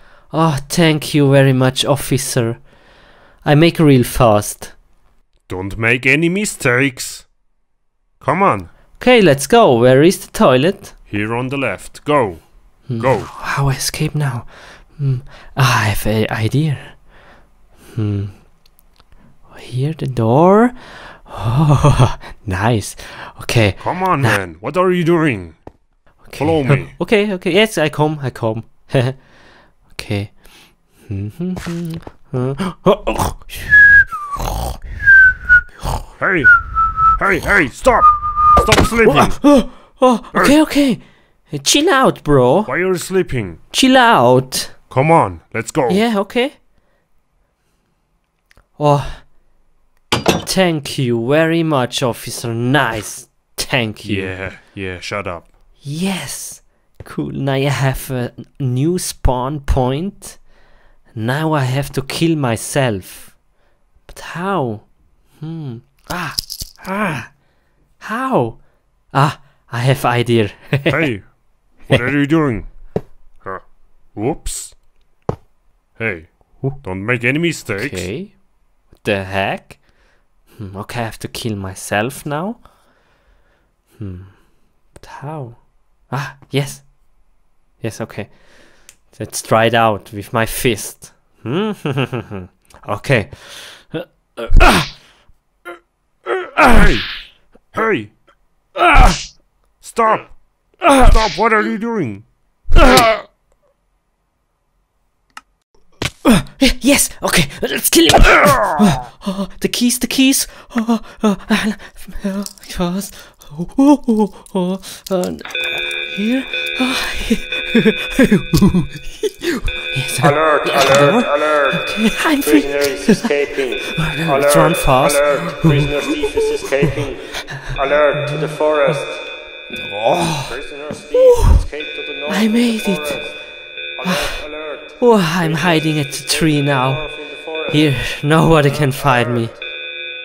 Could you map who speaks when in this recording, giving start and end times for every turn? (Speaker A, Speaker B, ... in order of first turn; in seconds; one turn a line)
Speaker A: 0.3-2.6
Speaker A: 3.4-4.7
Speaker B: 5.5-7.3
Speaker B: 8.2-8.7
Speaker A: 9.0-10.9
Speaker B: 11.1-13.3
Speaker A: 12.9-17.0
Speaker A: 17.9-18.4
Speaker A: 19.5-24.4
Speaker B: 23.8-25.6
Speaker A: 26.2-29.3
Speaker B: 26.4-26.9
Speaker A: 29.9-30.4
Speaker A: 30.9-33.9
Speaker B: 36.2-39.6
Speaker A: 39.0-42.7
Speaker B: 42.7-43.6
Speaker A: 43.7-44.8
Speaker B: 44.9-46.0
Speaker A: 45.9-46.5
Speaker A: 48.8-49.3
Speaker A: 50.4-54.4
Speaker B: 54.0-55.5
Speaker A: 55.8-60.4
Speaker A: 61.1-63.4
Speaker A: 64.1-67.3
Speaker A: 68.0-71.1
Speaker B: 70.9-72.7
Speaker B: 73.4-74.8
Speaker B: 76.0-78.1
Speaker A: 77.7-78.4
Speaker A: 78.9-79.8
Speaker A: 80.6-82.7
Speaker A: 84.0-86.9
Speaker A: 87.8-88.4
Speaker A: 89.1-95.0
Speaker A: 96.3-96.7
Speaker B: 96.7-97.2
Speaker B: 97.7-98.1
Speaker A: 98.8-99.2
Speaker B: 99.8-102.3
Speaker A: 100.8-101.1
Speaker A: 102.7-103.2
Speaker A: 106.2-123.3
Speaker C: 120.2-129.2
Speaker A: 123.8-126.9
Speaker A: 127.5-129.0
Speaker A: 129.8-130.6
Speaker C: 130.4-133.4
Speaker A: 131.1-131.6
Speaker A: 132.3-133.3
Speaker C: 134.0-137.9
Speaker A: 134.0-134.4
Speaker A: 135.0-139.6
Speaker C: 138.7-139.5